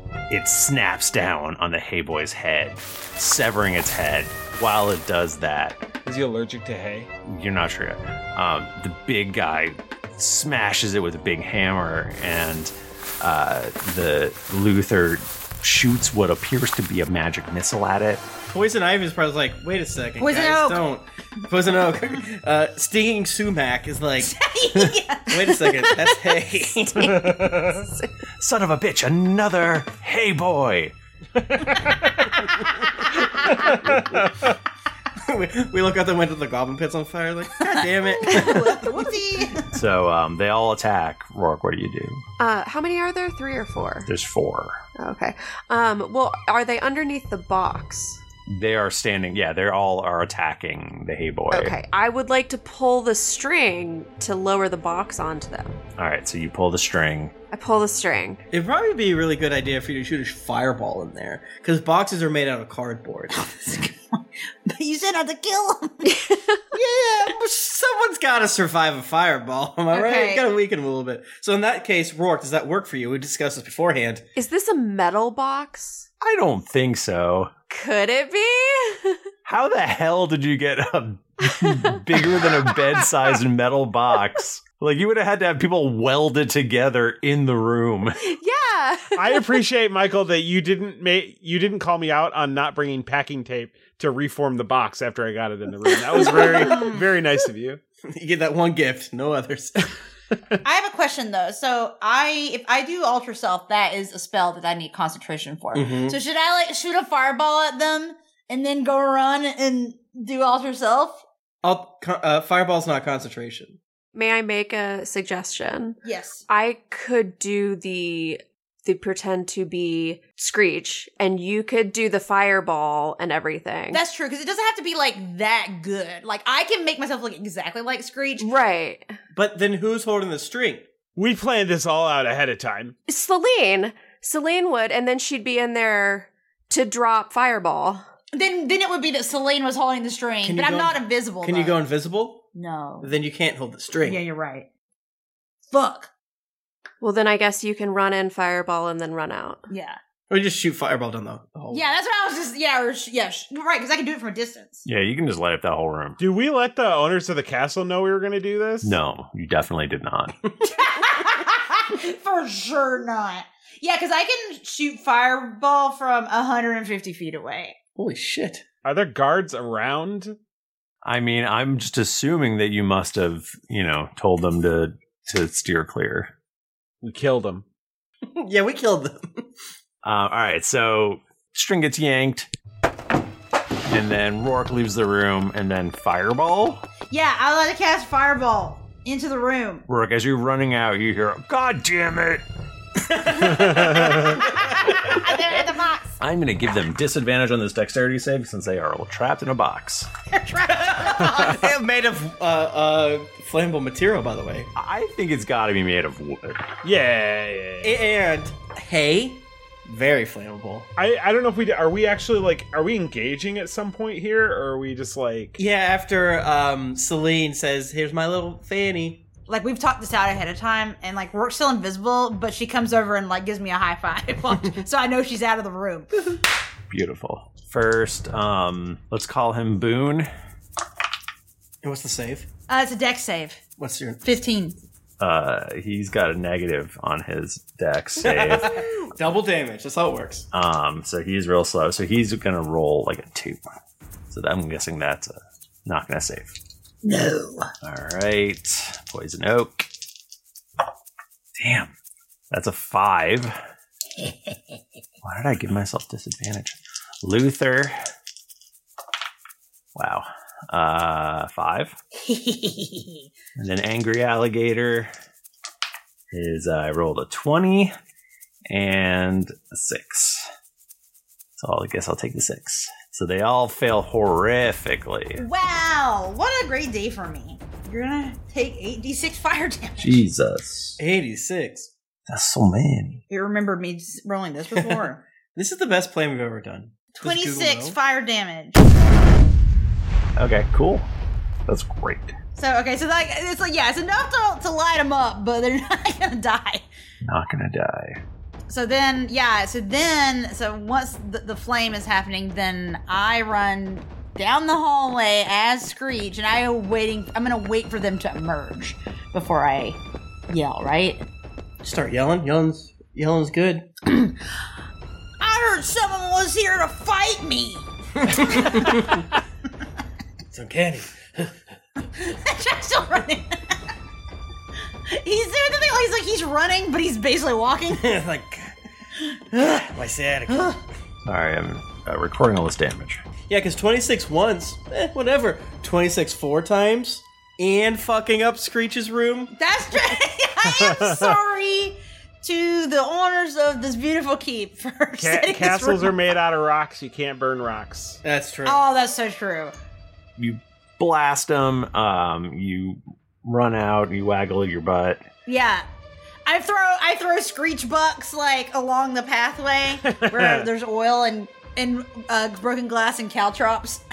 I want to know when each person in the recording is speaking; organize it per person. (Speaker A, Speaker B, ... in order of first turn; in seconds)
Speaker A: 0.3-5.8, 7.3-18.2, 28.4-30.9, 39.7-42.2, 44.1-44.8, 48.5-51.8, 56.0-57.3, 76.2-77.5, 79.5-88.2, 154.8-156.2, 158.8-160.4, 171.0-176.3, 180.0-182.5, 183.9-186.8, 189.9-192.4, 196.2-200.1, 204.8-206.7, 226.9-230.3, 235.2-238.8, 240.5-243.6, 244.3-246.6, 247.8-249.9, 251.6-251.9, 252.5-253.6, 255.2-258.0, 259.9-262.0, 263.6-265.1, 266.3-267.9, 268.7-270.5, 271.6-275.4, 280.0-281.0, 282.3-283.2, 290.4-291.1, 291.7-292.3, 297.2-298.2, 331.3-333.2, 350.4-355.2
Speaker B: 6.0-7.1, 27.0-27.8, 31.4-32.4, 33.7-34.5, 89.2-97.8, 131.2-132.9, 156.2-159.0, 168.8-170.4, 177.0-177.7, 193.6-194.2, 206.8-208.0, 211.0-215.6, 340.7-341.4, 345.2-348.2, 360.0-360.7
Speaker C: 18.5-24.4, 25.3-27.3, 35.2-39.0, 58.5-63.4, 67.3-74.2, 98.1-99.9, 105.7-106.2, 111.6-113.8, 129.3-130.8, 140.4-142.5, 143.0-144.2, 150.3-151.9, 168.0-168.6, 178.4-179.5, 193.4-194.5, 200.7-204.7, 207.8-210.9, 215.6-219.2, 231.8-232.5, 233.8-234.2, 238.2-240.5, 281.0-281.9, 284.7-288.0, 311.8-313.9, 318.2-319.2, 320.5-321.5, 327.9-328.7, 329.6-330.7, 333.5-339.5, 348.2-348.8
Speaker D: 20.2-20.9, 24.2-25.6, 33.2-33.5, 37.6-39.7, 63.3-67.4, 69.9-70.5, 96.3-97.0, 100.6-111.2, 116.0-116.4, 123.9-128.5, 138.3-141.8, 142.5-143.1, 144.0-144.7, 145.7-146.1, 149.7-150.0, 151.7-154.8, 160.7-167.8, 187.1-189.9, 194.1-196.1, 200.3-201.6, 219.5-226.1, 232.7-233.6, 234.2-234.8, 247.0-247.7, 254.2-254.6, 262.2-263.3, 275.4-280.2, 283.3-285.2, 287.1-288.9, 292.6-296.8, 298.7-310.0, 310.5-311.2, 314.1-314.4, 315.4-318.7, 322.1-323.7, 325.1-328.2, 329.2-329.8, 330.5-330.8, 339.6-346.2, 348.7-349.7, 355.5-355.9, 356.5-364.0
Speaker E: 38.3-38.6, 42.4-44.1, 45.0-48.2, 51.5-55.8, 57.5-58.4, 66.0-66.6, 74.3-76.1, 77.7-79.2, 81.4-83.1, 88.2-89.5, 96.2-96.7, 114.1-124.0, 128.4-129.2, 133.1-138.1, 147.0-149.7